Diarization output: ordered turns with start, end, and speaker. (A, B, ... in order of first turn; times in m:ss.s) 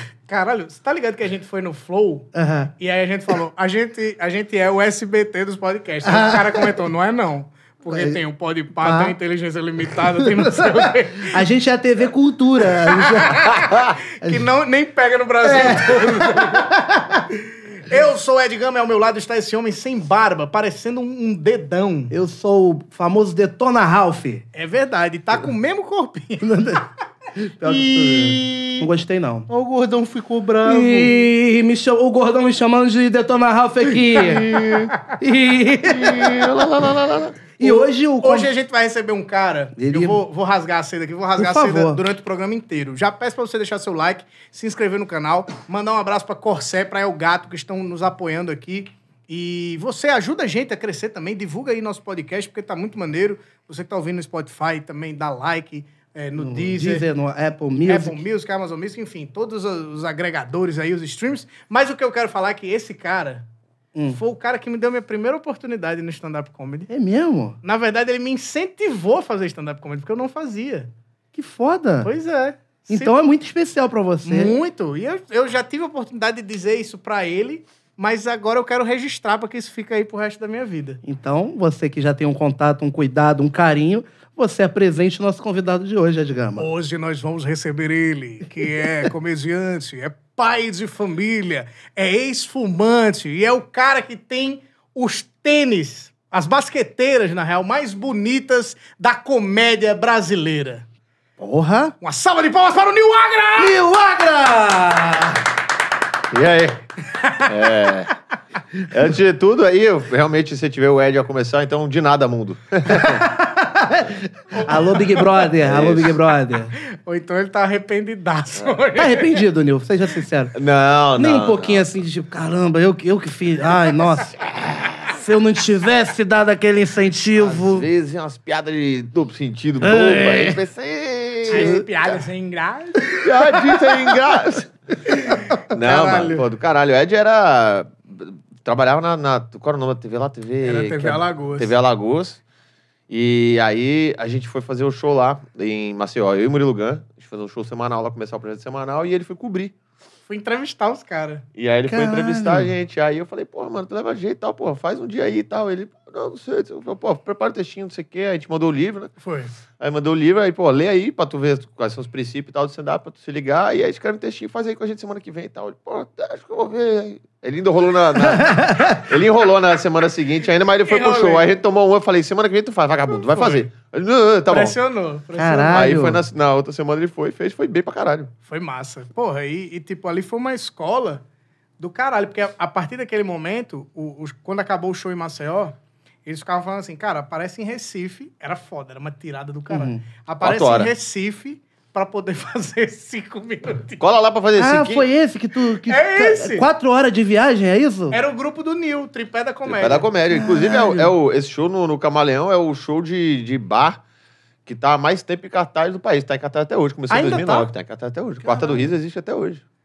0:00.3-0:11.4 A
0:02.3-0:02.7 B
0:06.0-0:06.7 B
0:07.9-0:08.2 B
0:08.8-0:09.2 B
0:10.2-0:13.5 B
0:12.7-0:16.8 A
0:13.5-0:14.0 C
0:15.4-0:17.3 B
0:17.3-0:22.1 A
0:22.1-0:24.4 B
0:24.5-0:26.8 A
0:26.4-0:29.5 B
0:27.6-0:28.9 A
0:29.5-0:31.2 A
0:30.6-0:34.5 B
0:33.8-0:35.0 C
0:35.1-0:36.5 B
0:35.8-0:37.4 C
0:37.6-0:38.5 B
0:37.6-0:57.1 A
0:39.8-0:40.2 B
0:41.4-0:42.0 B
0:56.4-0:58.2 B
0:57.9-1:03.5 A
1:04.0-1:04.2 B
1:04.1-1:06.9 A
1:06.9-1:07.6 B
1:07.6-1:10.9 A
1:11.3-1:12.1 B
1:12.0-1:13.1 A
1:12.9-1:14.6 B
1:14.2-1:21.0 A
1:21.0-1:26.7 B
1:26.6-1:40.9 A
1:41.4-1:42.0 B
1:42.0-1:43.8 A
1:43.6-1:45.5 B
1:46.3-1:46.8 C
1:47.2-1:47.5 A
1:47.4-1:48.1 C
1:48.9-1:53.2 C
1:52.9-1:56.7 B
1:54.6-1:55.3 A
1:55.6-1:56.2 C
1:56.8-1:59.5 A
1:59.0-2:00.5 B
2:00.5-2:01.9 C
2:01.2-2:04.3 B
2:04.4-2:05.2 C
2:05.1-2:07.9 B
2:07.4-2:12.2 C
2:09.8-2:10.6 B
2:11.5-2:14.1 A
2:11.5-2:11.8 B
2:13.1-2:14.7 C
2:15.1-2:16.4 A
2:15.7-2:22.4 C
2:20.6-2:21.7 A
2:23.1-2:29.7 C
2:30.3-2:31.5 A
2:31.6-2:39.1 C
2:31.9-2:32.7 B
2:39.2-2:39.5 A
2:39.8-2:54.8 C
2:48.2-2:49.1 B
2:50.8-2:51.5 A
2:53.1-2:53.7 A
2:54.5-2:55.8 A
2:55.4-2:56.2 B
2:55.7-2:58.3 C
2:58.5-3:01.2 A
3:01.8-3:14.0 A
3:09.7-3:10.0 B
3:10.4-3:10.9 C
3:14.0-3:15.1 C
3:14.6-3:18.2 B
3:15.7-3:16.7 A
3:18.1-3:20.1 A
3:19.7-3:24.0 C
3:20.3-3:21.1 B
3:24.7-3:29.6 C
3:27.1-3:27.7 A
3:28.4-3:28.9 B